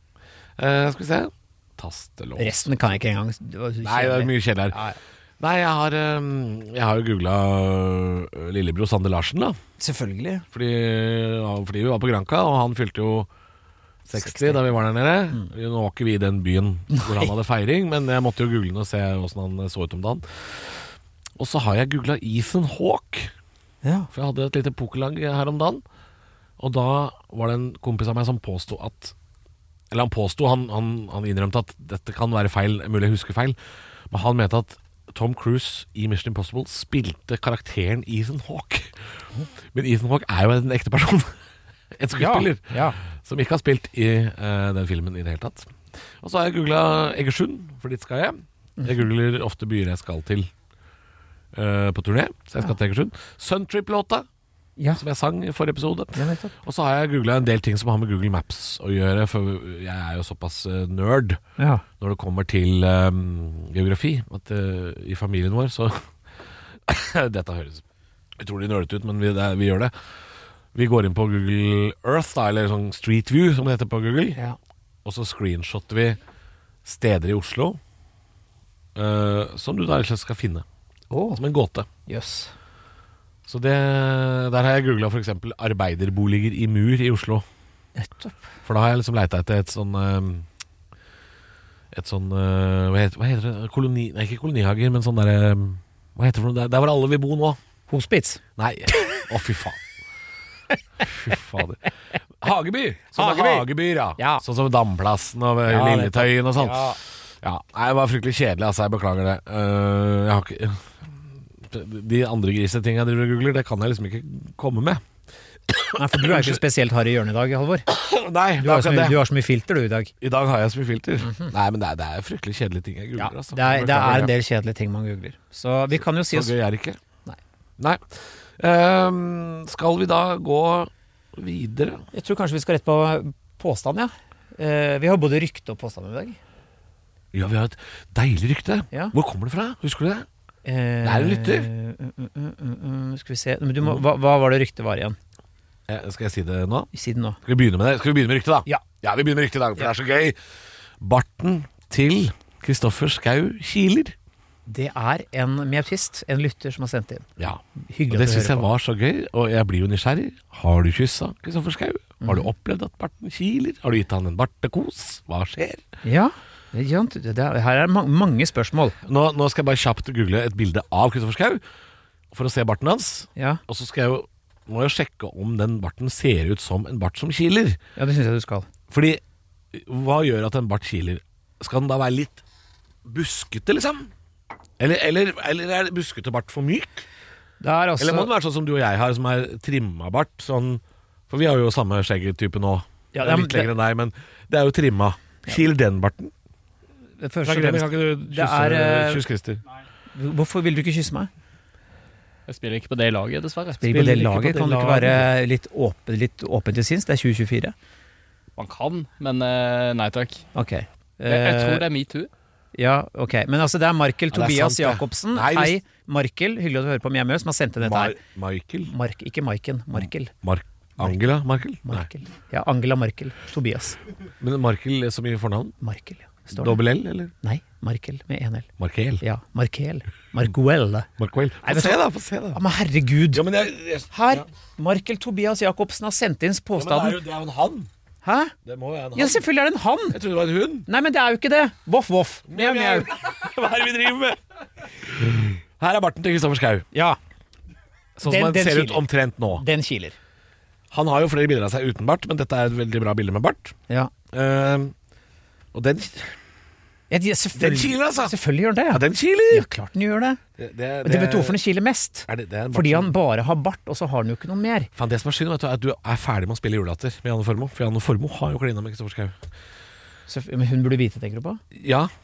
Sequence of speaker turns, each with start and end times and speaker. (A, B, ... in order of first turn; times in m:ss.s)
0:00.6-0:02.8 A
0:02.4-0:05.0 B
0:03.8-0:04.8 A
0:05.4-0:09.6 A
0:09.8-0:10.4 B
0:10.5-0:13.3 A
0:14.1-0:23.3 A
0:14.1-0:14.7 B
0:16.9-0:17.3 B
0:23.8-0:24.1 B
0:24.1-0:25.8 A
0:26.6-0:29.1 A
0:29.9-0:33.6 A
0:34.1-0:39.1 A
0:39.7-0:41.4 A
0:41.9-0:50.5 A
0:42.2-0:43.0 B
0:51.5-0:54.2 A
0:54.8-0:55.0 B
0:55.0-1:01.4 A
0:56.2-0:56.5 B
1:01.6-1:01.8 B
1:02.0-1:06.1 A
1:06.8-1:07.8 A
1:08.4-1:09.9 A
1:10.7-1:14.4 A
1:15.0-1:16.2 A
1:16.8-1:17.8 A
1:18.9-1:20.6 A
1:21.1-1:21.4 B
1:21.4-1:21.9 A
1:22.1-1:22.5 B
1:23.5-1:27.4 A
1:28.0-1:28.4 B
1:28.6-1:30.5 A
1:31.9-1:37.6 A
1:37.9-1:38.4 B
1:38.6-1:39.8 A
1:39.0-1:39.2 B
1:41.0-1:41.9 A
1:42.4-1:55.0 A
1:43.1-1:44.4 B
1:45.7-1:47.0 B
1:55.7-1:56.6 A
1:56.0-1:57.9 B
1:57.9-1:59.2 A
1:58.6-2:00.1 B
2:00.2-2:04.3 A
2:01.2-2:01.5 B
2:03.2-2:06.5 B
2:05.9-2:07.0 A
2:07.8-2:12.0 A
2:12.1-2:16.4 B
2:17.3-2:20.3 A
2:20.6-2:25.2 B
2:21.0-2:21.7 A
2:25.9-2:26.9 A
2:26.9-2:27.4 B
2:27.4-2:30.4 A
2:31.0-2:34.1 A
2:34.7-2:37.3 B
2:37.4-2:45.8 A
2:37.8-2:38.7 B
2:42.2-2:42.5 B
2:46.0-2:49.0 B
2:49.0-2:51.6 A
2:52.3-2:57.8 A
2:53.4-2:53.6 B
2:58.0-2:58.7 B
2:58.9-2:59.2 A
2:59.7-3:02.4 A
3:03.0-3:04.1 A
3:04.8-3:07.0 A
3:07.6-3:08.3 B
3:08.0-3:16.3 A
3:13.1-3:13.7 B
3:17.2-3:19.2 B
3:17.4-3:19.6 A
3:20.1-3:21.3 B
3:22.5-3:25.2 C
3:23.8-3:27.7 B
3:28.6-3:30.4 C
3:30.5-3:31.8 B
3:31.2-3:32.3 C
3:32.7-3:38.2 B
3:34.3-3:35.8 A
3:37.8-3:38.9 A
3:38.8-3:40.3 B
3:40.0-3:42.1 A
3:41.8-3:44.0 B
3:44.4-3:45.8 A
3:45.8-3:46.8 B
3:46.5-3:47.3 A
3:47.4-3:48.7 B
3:48.8-3:49.2 A
3:49.2-3:51.1 B
3:51.2-3:52.6 A
3:51.6-3:52.0 B
3:52.5-3:53.4 B
3:53.3-3:54.4 A
3:54.1-3:57.2 B
3:56.8-3:57.9 A
3:58.2-3:58.5 B
3:58.6-3:59.4 A
3:59.1-4:00.2 B
4:00.1-4:00.9 A
4:00.9-4:03.1 B
4:02.5-4:06.9 A
4:06.9-4:07.2 B
4:08.2-4:09.6 A
4:08.2-4:10.2 B
4:10.9-4:13.7 A
4:14.3-4:14.9 A
4:15.7-4:16.4 A
4:17.1-4:20.4 B
4:17.5-4:18.3 A
4:18.9-4:19.7 A
4:20.6-4:21.6 A
4:21.0-4:24.9 B
4:22.3-4:23.1 A
4:25.0-4:29.4 A
4:30.3-4:31.6 B
4:31.7-4:32.1 A